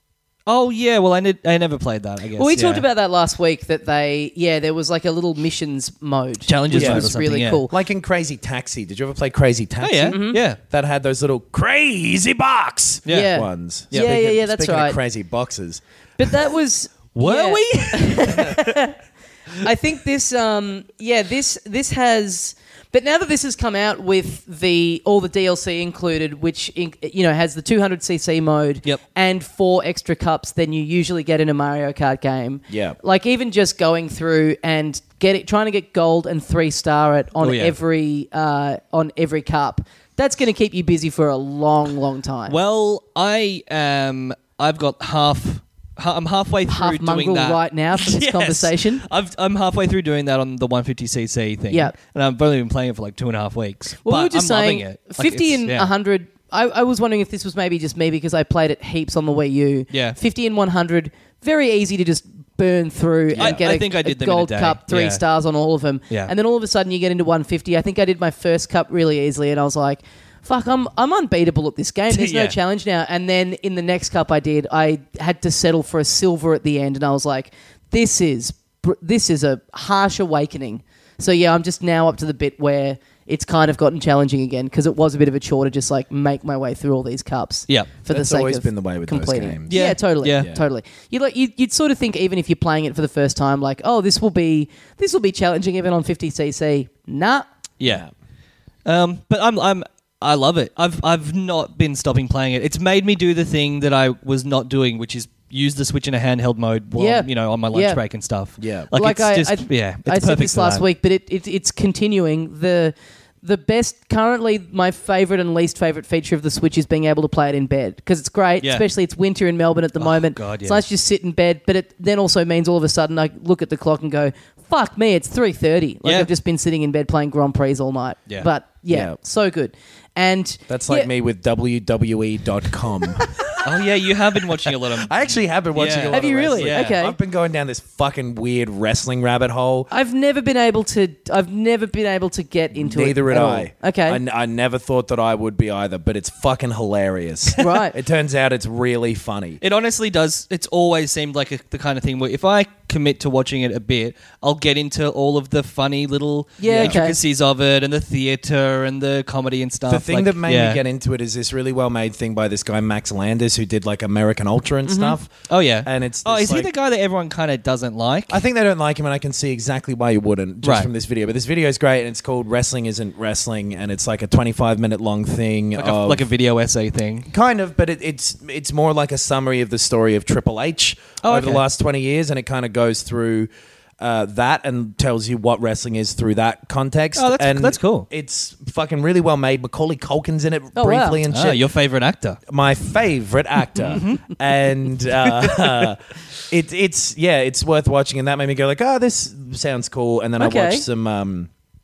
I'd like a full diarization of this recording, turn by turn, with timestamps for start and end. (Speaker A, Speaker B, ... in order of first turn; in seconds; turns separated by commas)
Speaker A: 0.5-2.9, Speaker B: 2.4-7.7, Speaker A: 6.5-7.7, Speaker C: 6.7-7.1, Speaker C: 7.7-16.3, Speaker A: 9.8-10.6, Speaker B: 10.1-10.4, Speaker A: 13.1-13.3, Speaker B: 13.1-15.0, Speaker B: 16.2-19.0, Speaker A: 17.1-18.6, Speaker B: 19.6-42.6, Speaker C: 32.7-33.0, Speaker A: 37.4-37.8, Speaker A: 42.5-55.9, Speaker B: 46.7-49.0, Speaker B: 54.0-97.5, Speaker A: 59.9-60.2, Speaker C: 63.3-63.6, Speaker A: 63.4-65.2, Speaker A: 72.1-72.6, Speaker C: 88.1-89.8, Speaker A: 89.7-90.5, Speaker C: 90.3-90.6, Speaker A: 97.8-98.0, Speaker C: 97.8-98.1, Speaker A: 98.8-110.8, Speaker B: 107.0-108.0, Speaker C: 108.6-108.9, Speaker B: 109.0-131.1, Speaker A: 118.6-118.9, Speaker A: 120.0-120.8, Speaker A: 126.0-126.3, Speaker C: 128.9-129.2, Speaker C: 130.7-133.3, Speaker A: 133.6-137.0, Speaker C: 134.7-139.9, Speaker B: 136.1-137.2, Speaker B: 139.9-144.2, Speaker C: 142.7-149.6, Speaker B: 147.6-147.9, Speaker A: 149.6-160.8, Speaker B: 156.6-157.2, Speaker C: 156.7-157.0, Speaker C: 159.9-166.7, Speaker B: 164.9-165.1, Speaker A: 165.5-168.4, Speaker C: 168.3-176.3, Speaker A: 170.6-170.9, Speaker A: 175.8-177.3, Speaker C: 177.3-191.6, Speaker A: 181.2-181.6, Speaker A: 187.2-188.1, Speaker B: 190.8-191.2, Speaker A: 191.3-192.4, Speaker C: 192.5-201.5, Speaker A: 193.9-194.2, Speaker A: 195.3-195.9, Speaker B: 200.4-200.8